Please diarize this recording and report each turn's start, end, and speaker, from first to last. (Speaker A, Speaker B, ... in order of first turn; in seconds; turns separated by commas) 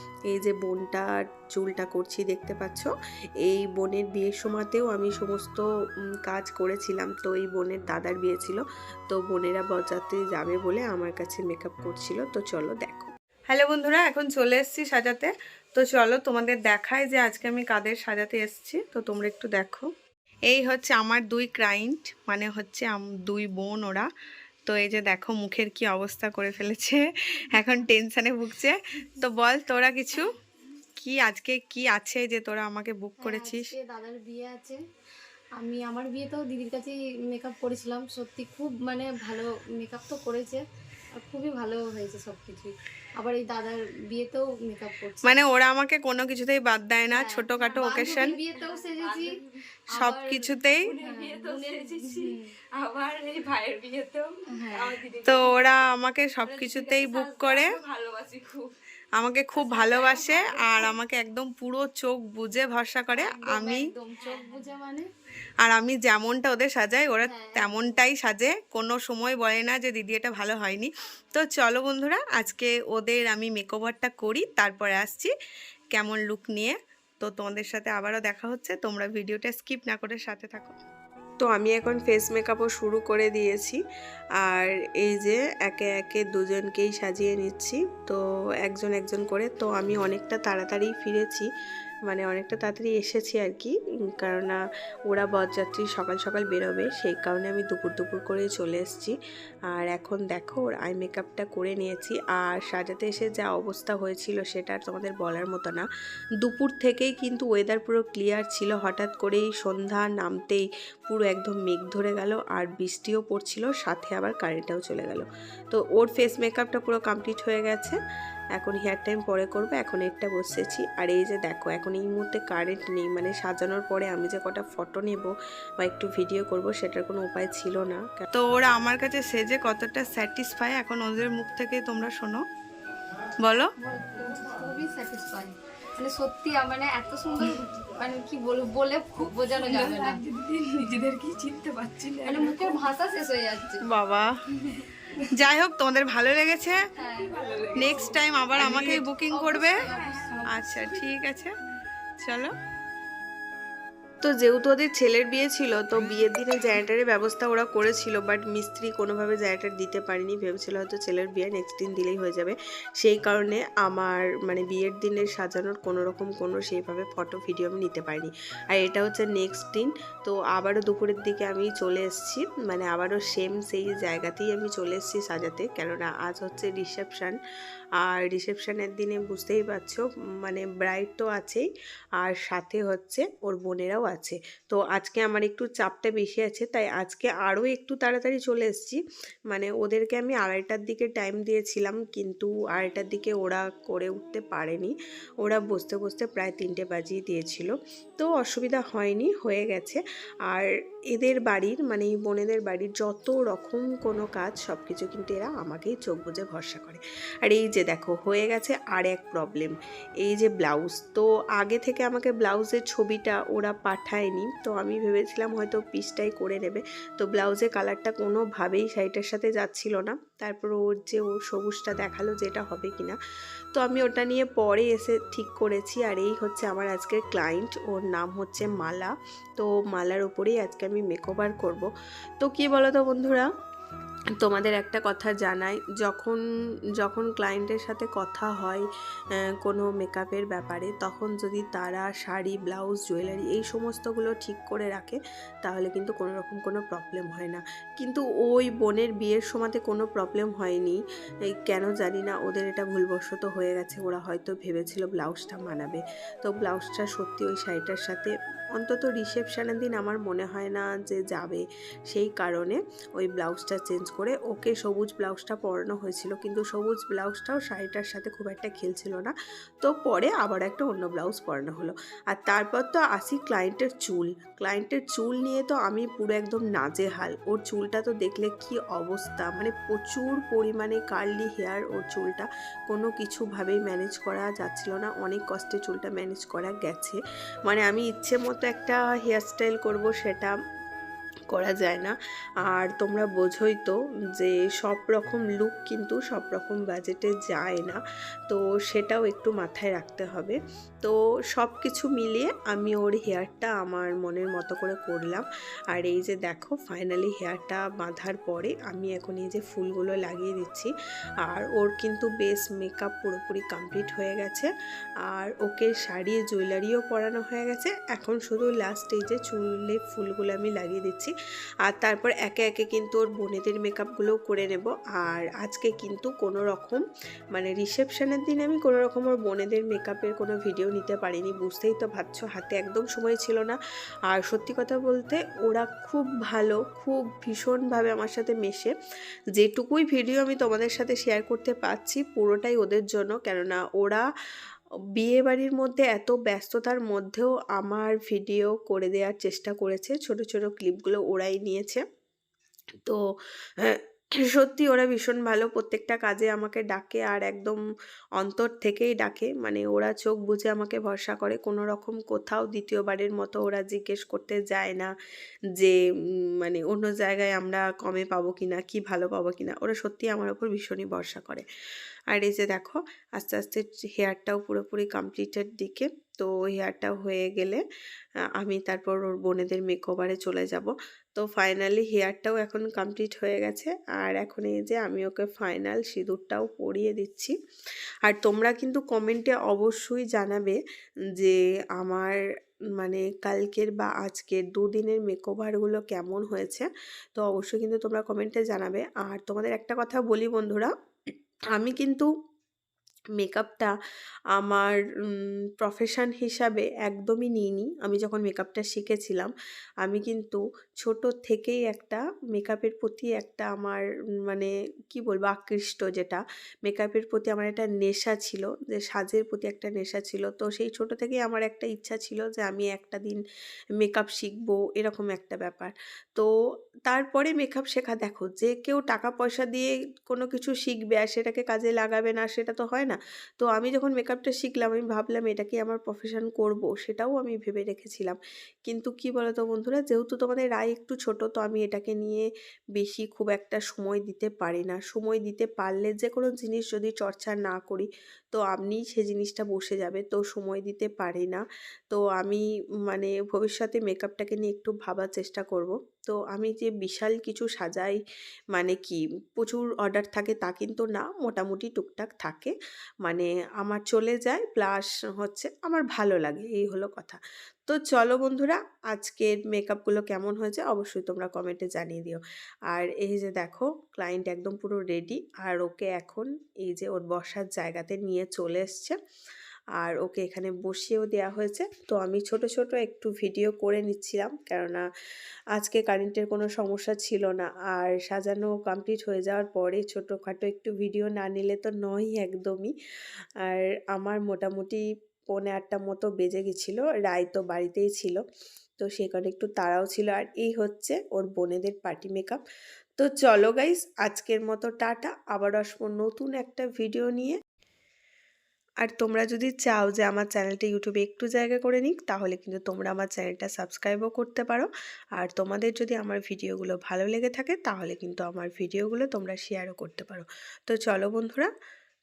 Speaker A: 0.3-2.9, Speaker A: 3.5-5.7, Speaker A: 6.3-19.9, Speaker A: 20.5-24.1, Speaker A: 24.7-30.3, Speaker A: 31.0-33.8, Speaker B: 33.2-34.8, Speaker B: 35.6-40.6, Speaker B: 41.2-45.4, Speaker A: 45.2-48.4, Speaker B: 47.1-49.4, Speaker C: 47.6-49.6, Speaker B: 49.9-50.5, Speaker A: 49.9-50.9, Speaker C: 50.7-55.9, Speaker B: 51.0-52.5, Speaker B: 54.6-55.0, Speaker A: 55.2-57.8, Speaker C: 56.4-58.7, Speaker A: 59.2-63.9, Speaker C: 59.5-61.0, Speaker B: 63.1-65.1, Speaker C: 64.2-64.6, Speaker A: 65.6-75.3, Speaker B: 67.2-68.0, Speaker A: 75.9-80.8, Speaker A: 81.4-83.8, Speaker A: 84.4-91.5, Speaker A: 92.1-99.2, Speaker A: 99.7-105.9, Speaker A: 106.4-118.0, Speaker A: 118.6-132.4, Speaker A: 133.4-133.7, Speaker B: 133.8-140.2, Speaker C: 139.6-142.8, Speaker B: 142.3-143.8, Speaker A: 143.9-144.3, Speaker A: 145.3-146.8, Speaker B: 147.0-147.3, Speaker C: 147.1-149.1, Speaker A: 147.8-149.8, Speaker B: 148.6-150.5, Speaker C: 149.6-151.2, Speaker A: 150.5-151.6, Speaker A: 152.2-152.5, Speaker A: 154.2-177.4, Speaker A: 178.0-181.7, Speaker A: 182.2-223.2, Speaker A: 223.8-231.9, Speaker A: 232.4-233.5, Speaker A: 234.4-236.4, Speaker A: 237.0-238.9, Speaker A: 239.6-290.6, Speaker A: 291.5-292.1, Speaker A: 292.7-310.9, Speaker A: 311.5-314.7, Speaker A: 315.3-321.3, Speaker A: 321.9-327.0, Speaker A: 327.5-338.9, Speaker A: 339.6-344.3, Speaker A: 345.2-352.0, Speaker A: 353.8-357.8, Speaker A: 358.4-365.1, Speaker A: 366.6-371.7, Speaker A: 372.3-377.8, Speaker A: 378.6-387.6, Speaker A: 388.3-390.8, Speaker A: 391.4-392.4, Speaker A: 393.0-400.9, Speaker A: 401.8-402.3, Speaker A: 403.4-403.9, Speaker A: 404.6-409.5, Speaker A: 410.0-423.4, Speaker A: 424.0-426.5, Speaker A: 427.1-458.2, Speaker A: 458.7-462.7, Speaker A: 463.2-479.2, Speaker A: 480.0-485.1, Speaker A: 485.8-492.9, Speaker A: 493.6-498.4, Speaker A: 499.0-502.6, Speaker A: 503.2-507.6, Speaker A: 509.0-521.7